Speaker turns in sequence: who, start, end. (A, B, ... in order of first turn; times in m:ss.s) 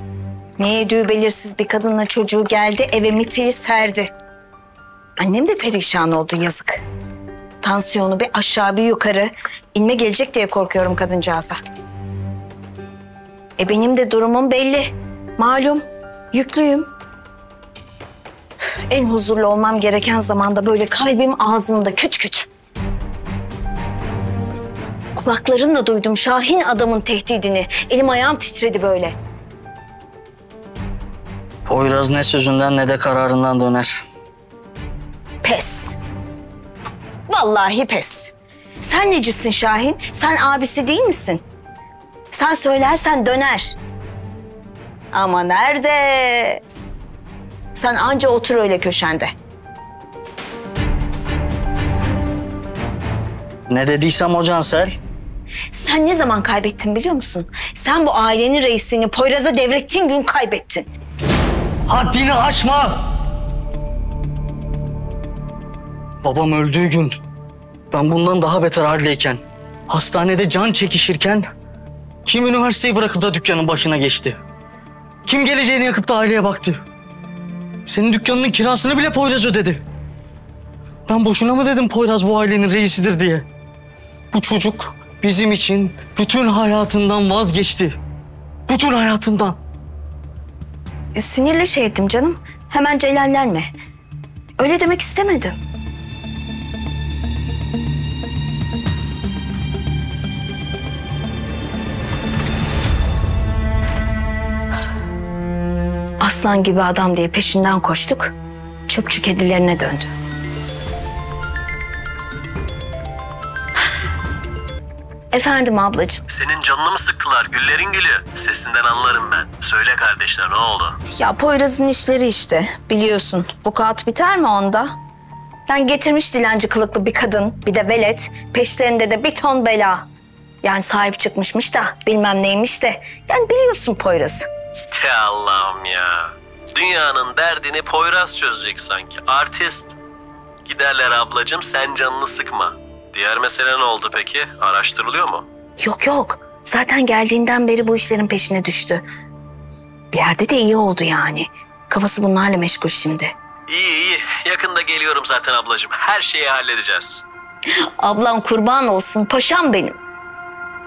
0:00.6-0:04.1 A
0:05.2-0:06.8 A
0:07.6-0:11.6 A
0:13.6-0:16.9 A
0:18.9-0:22.5 A
0:25.2-0:29.2 A
0:31.7-0:34.0 B
0:35.4-0:36.0 A
0:37.3-0:41.4 A
0:42.3-0:43.8 A
0:45.1-0:46.6 A
0:47.8-0:49.3 A
0:53.7-0:55.0 B
0:55.7-1:00.9 A
1:01.9-1:03.0 B
1:06.2-1:07.2 B
1:07.9-1:11.5 B
1:12.3-1:14.4 B
1:15.3-1:16.8 B
1:17.9-1:19.8 B
1:21.1-1:23.5 B
1:24.3-1:28.0 B
1:28.7-1:29.6 B
1:31.2-1:33.7 A
1:34.6-1:35.6 A
1:46.2-1:48.3 A
1:48.9-1:50.1 A
1:55.3-1:56.2 A
1:56.3-2:01.0 C
2:01.1-2:05.0 A
2:05.7-2:10.1 A
2:10.6-2:14.5 A
2:14.9-2:20.0 C
2:20.6-2:25.4 C
2:25.8-2:29.0 A
2:30.1-2:33.3 A
2:33.7-2:37.2 C
2:38.0-2:40.0 A